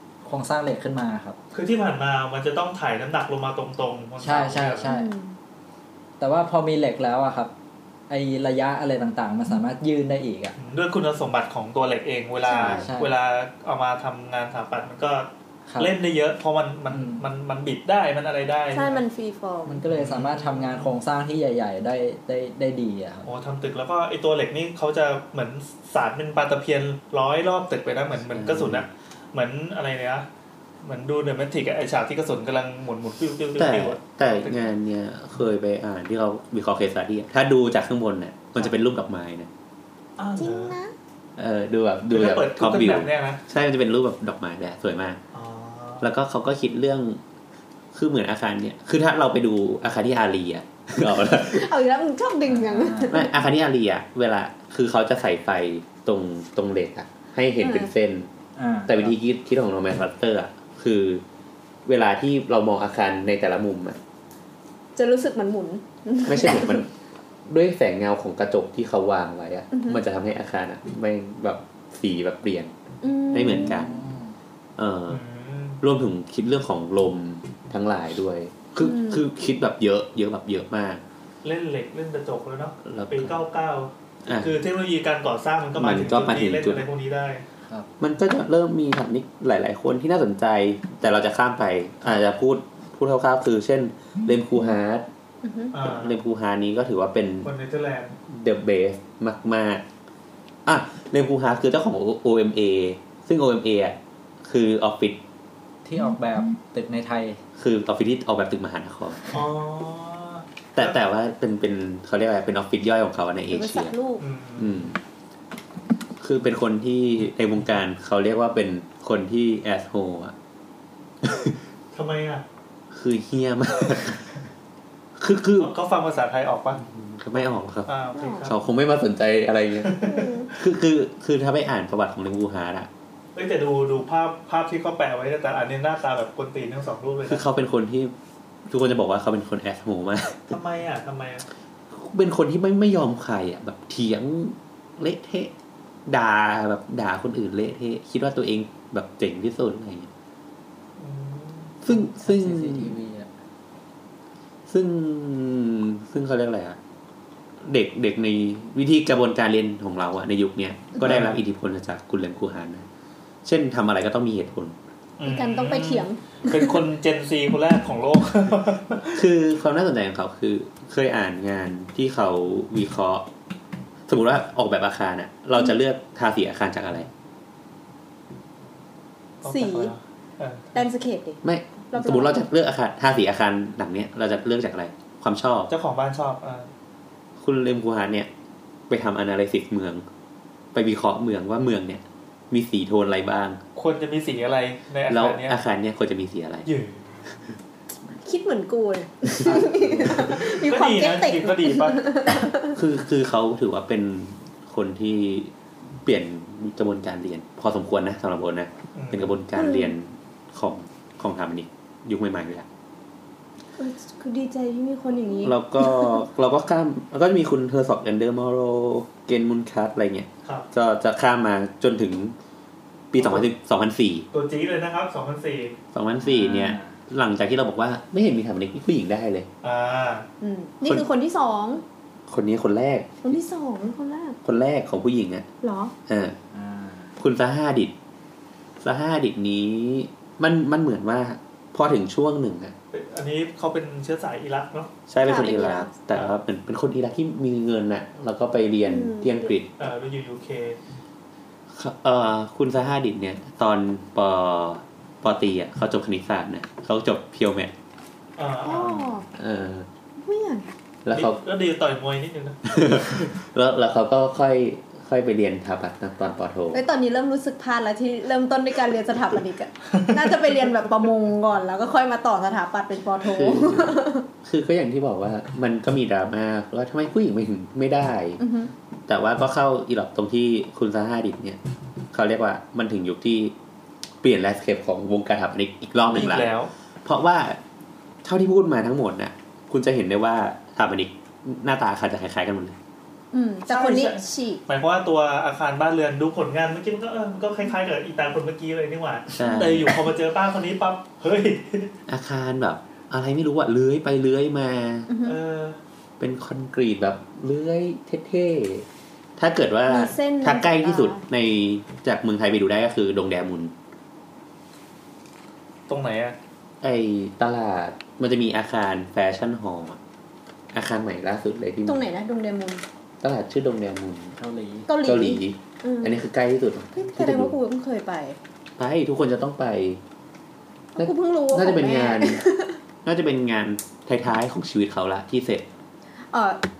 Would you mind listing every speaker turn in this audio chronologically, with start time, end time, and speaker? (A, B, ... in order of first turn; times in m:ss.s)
0:00.2-0:01.4 A
0:01.5-0:04.9 B
0:04.2-0:05.1 A
0:04.8-0:05.4 C
0:06.2-0:07.5 A
0:08.1-0:10.6 A
0:10.6-0:19.0 B
0:12.4-0:12.8 C
0:12.6-0:13.1 A
0:15.7-0:15.9 A
0:16.9-0:17.2 A
0:18.7-0:19.8 C
0:19.6-0:23.3 A
0:19.8-0:20.9 B
0:23.2-0:30.2 B
0:28.3-0:28.8 D
0:30.8-0:34.6 B
0:33.6-0:39.5 D
0:40.2-0:40.8 B
0:40.4-0:40.9 C
0:41.4-0:45.2 D
0:42.1-0:43.4 B
0:45.3-0:46.0 B
0:46.0-0:47.2 D
0:47.9-0:51.7 D
0:51.3-0:53.3 C
0:52.5-0:53.2 A
0:53.1-0:58.3 D
0:57.6-0:57.9 C
0:58.6-0:59.1 A
0:58.9-1:01.2 D
1:01.8-1:04.0 D
1:05.0-1:06.8 C
1:06.2-1:06.9 D
1:07.5-1:12.7 D
1:09.7-1:10.0 C
1:13.0-1:13.9 C
1:13.3-1:13.9 D
1:13.6-1:14.3 A
1:14.8-1:15.2 D
1:15.1-1:15.8 B
1:15.8-1:21.0 D
1:18.8-1:19.2 C
1:21.4-1:27.4 B
1:22.8-1:23.4 D
1:24.3-1:24.5 D
1:25.8-1:26.8 D
1:28.0-1:35.1 D
1:35.4-1:35.7 C
1:35.7-1:36.1 B
1:35.8-1:37.5 D
1:37.4-1:38.1 B
1:38.3-1:39.8 D
1:40.6-1:45.2 D
1:45.8-1:47.4 A
1:47.6-1:49.3 D
1:49.3-1:51.0 B
1:50.7-1:53.9 D
1:53.5-1:54.2 C
1:54.2-1:54.9 B
1:54.6-1:55.0 D
1:56.2-2:00.3 D
2:01.2-2:01.6 D
2:01.9-2:02.4 B
2:02.9-2:04.4 D
2:05.2-2:05.7 D
2:05.6-2:06.8 B
2:06.7-2:07.9 D
2:07.8-2:08.6 B
2:08.1-2:08.5 C
2:08.4-2:10.0 D
2:09.8-2:10.6 B
2:10.0-2:10.5 C
2:10.5-2:12.9 D
2:13.3-2:17.4 B
2:17.3-2:18.1 D
2:18.7-2:20.5 D
2:20.5-2:21.4 B
2:21.9-2:25.5 D
2:26.1-2:30.1 D
2:31.0-2:31.8 B
2:31.8-2:32.9 D
2:31.9-2:33.3 A
2:34.7-2:36.8 D
2:37.6-2:42.8 D
2:41.0-2:41.4 B
2:43.4-2:44.8 D
2:45.2-2:49.2 B
2:45.2-2:46.6 C
2:49.1-2:53.3 D
2:54.1-2:57.1 D
2:59.4-3:00.8 B
2:59.4-2:59.9 C
3:00.7-3:01.4 C
3:01.4-3:05.7 D
3:01.9-3:02.4 C
3:05.7-3:06.7 B
3:07.4-3:08.3 D
3:08.9-3:10.0 D
3:10.7-3:13.6 D
3:13.8-3:15.6 B
3:15.1-3:16.7 D
3:16.6-3:17.2 B
3:18.2-3:22.7 C
3:19.4-3:20.2 D
3:20.0-3:22.0 B
3:22.7-3:25.5 D
3:26.0-3:32.6 D
3:28.9-3:29.3 B
3:29.5-3:29.9 C
3:33.8-3:36.2 C
3:35.4-3:42.3 D
3:43.1-3:44.3 D
3:43.2-3:43.5 B
3:44.3-3:45.8 B
3:45.9-3:49.5 D
3:46.2-3:46.9 A
3:49.6-3:50.3 B
3:50.4-3:51.8 C
3:52.3-3:53.3 D
3:53.2-3:54.4 C
3:54.4-3:55.4 D
3:55.6-3:55.9 C
3:56.1-3:56.4 D
3:56.5-3:57.1 A
3:57.2-3:57.9 D
3:58.8-4:02.7 D
4:02.9-4:04.9 B
4:05.1-4:09.7 D
4:05.2-4:05.9 C
4:08.8-4:09.5 C
4:09.8-4:10.8 B
4:11.7-4:17.7 D
4:18.4-4:19.2 B
4:18.6-4:19.3 C
4:19.3-4:19.9 D
4:20.2-4:20.7 C
4:21.0-4:21.4 D
4:21.1-4:22.8 B
4:22.6-4:26.8 D
4:26.7-4:34.3 C
4:29.9-4:30.6 B
4:33.2-4:38.4 D
4:38.4-4:38.7 C
4:39.1-4:41.6 D
4:42.1-4:43.5 D
4:44.2-4:46.5 D
4:46.1-4:46.7 B
4:47.0-4:47.6 D
4:48.2-4:52.8 D
4:53.3-4:54.6 C
4:53.7-5:01.9 B
4:59.3-5:00.0 D
5:02.1-5:05.1 D
5:05.1-5:05.4 C
5:05.2-5:05.8 B
5:06.2-5:08.8 D
5:09.4-5:13.7 D
5:09.9-5:11.2 C
5:15.9-5:16.4 B
5:16.8-5:20.0 D
5:20.7-5:22.0 D
5:21.8-5:22.8 C
5:23.2-5:24.4 D
5:24.4-5:24.9 A
5:24.9-5:26.2 C
5:25.0-5:27.6 D
5:26.9-5:28.4 C
5:28.8-5:30.0 D
5:30.9-5:32.8 C
5:31.0-5:32.4 D
5:33.0-5:35.7 D
5:36.3-5:36.6 C